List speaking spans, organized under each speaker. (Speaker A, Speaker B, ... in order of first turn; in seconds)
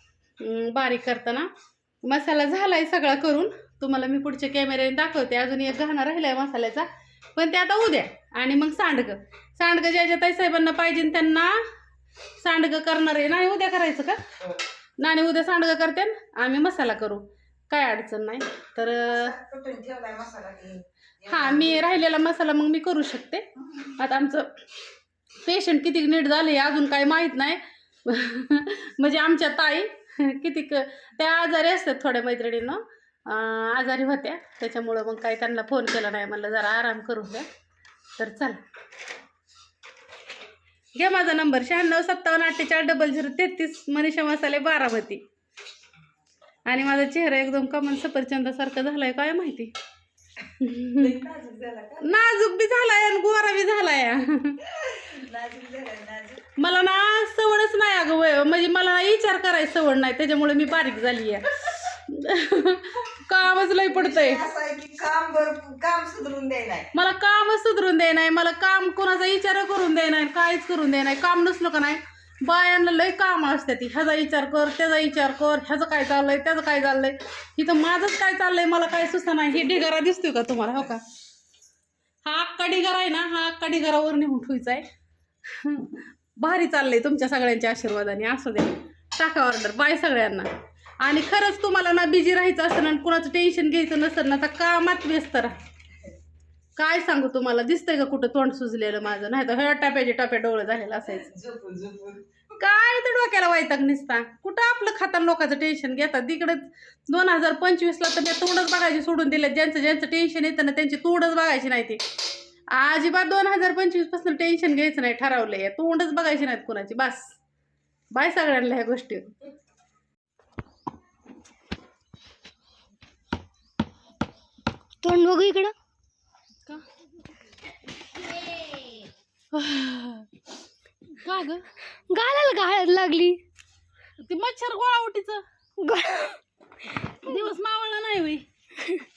Speaker A: 0.4-1.5, 2.0-11.6, 12.4-14.2, 15.0-19.3, 21.3-23.4, 24.0-24.5, 25.4-37.4, 38.2-38.6, 40.9-45.2, 46.6-49.7, 50.6-51.1, 52.0-54.6, 56.6-64.4, 66.9-81.0, 82.2-84.8, 85.6-90.5, 91.0-95.5, 96.8-101.3, 102.6-112.0, 112.7-117.3, 118.1-119.3, 129.5-130.2, 131.2-131.6, 134.2-135.4, 137.2-138.4
Speaker B: 18.8-22.0, 51.0-52.2, 55.0-56.4, 63.8-66.9, 101.1-102.2
Speaker C: 125.0-125.7, 132.1-133.4, 135.8-136.4